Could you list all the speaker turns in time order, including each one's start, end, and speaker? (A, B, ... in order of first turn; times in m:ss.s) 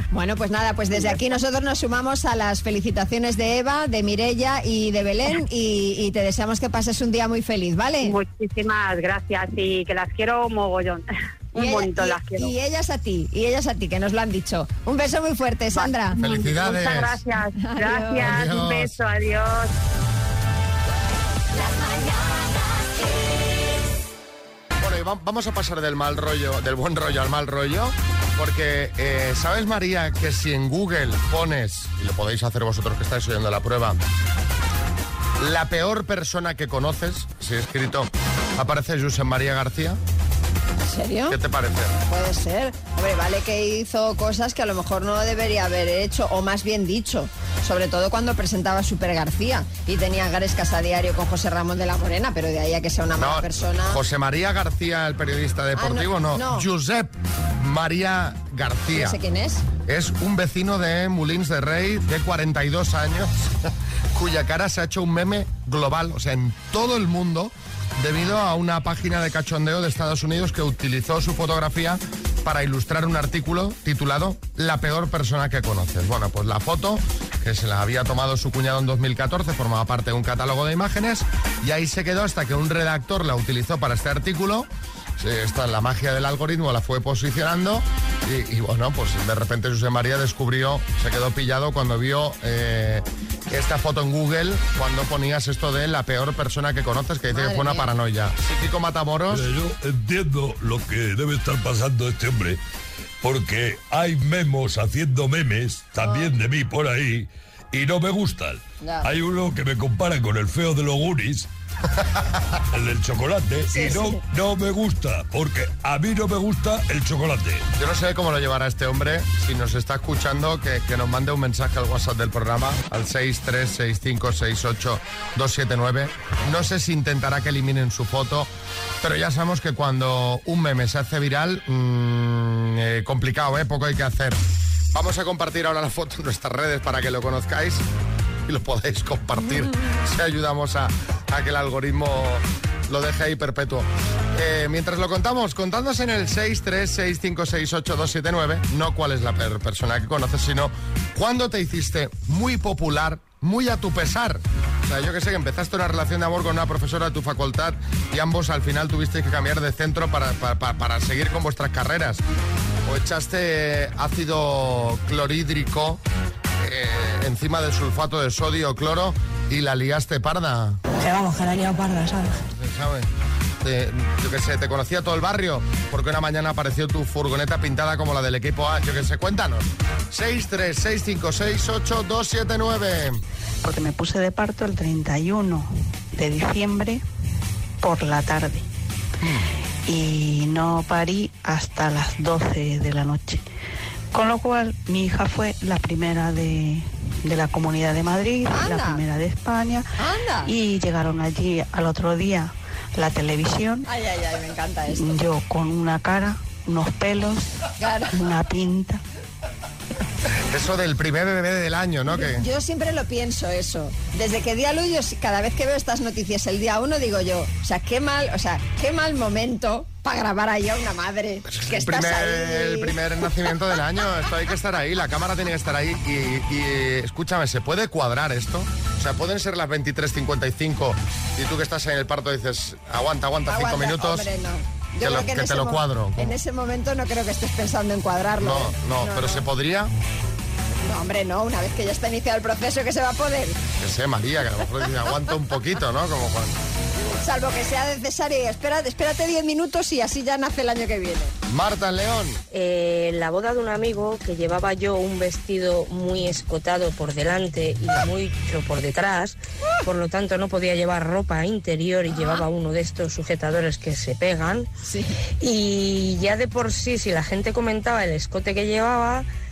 0:00.1-0:08.2 A
0:08.0-0:12.5 B
0:11.5-0:16.2 A
0:15.7-0:19.7 B
0:16.2-0:17.2 C
0:17.6-0:18.4 A
0:18.2-0:19.0 C
0:24.8-0:34.0 C
0:35.4-0:40.0 C
0:40.8-0:41.4 A
0:41.3-0:42.0 C
0:42.1-0:54.0 A
0:53.2-0:59.2 C
0:55.8-0:56.7 A
0:58.9-0:59.6 A
0:59.8-1:39.5 C
1:37.3-1:37.9 A
1:39.3-1:42.6 D
1:43.2-1:51.5 D
1:46.0-1:46.3 A
1:48.8-1:49.1 A
1:52.7-1:57.7 D
1:53.7-1:54.2 A
1:57.8-2:08.5 C
2:09.0-2:14.4 C
2:14.9-2:17.8 C
2:18.5-2:42.2 C
2:42.8-2:46.0 C
2:46.6-2:50.8 C
2:51.1-2:52.2 E
2:52.5-2:53.1 C
2:53.6-3:03.2 C
3:03.6-3:07.0 F
3:07.8-3:08.6 F
3:09.9-3:13.4 F
3:14.1-3:19.8 F
3:18.5-3:19.0 A
3:20.0-3:20.5 A
3:20.4-3:23.8 F
3:23.9-3:25.1 A
3:24.9-3:27.5 F
3:27.8-3:28.1 A
3:28.1-3:29.0 F
3:30.5-3:32.4 C
3:32.2-3:42.9 A
3:41.5-3:54.3 C
3:53.5-3:59.4 A
3:55.0-3:56.3 C
3:58.4-3:59.9 C
4:00.8-4:03.6 A
4:03.8-4:06.6 C
4:07.2-4:11.3 A
4:11.5-4:12.4 C
4:12.5-4:24.7 E
4:22.2-4:22.4 A
4:24.8-4:25.2 A
4:25.4-4:29.3 E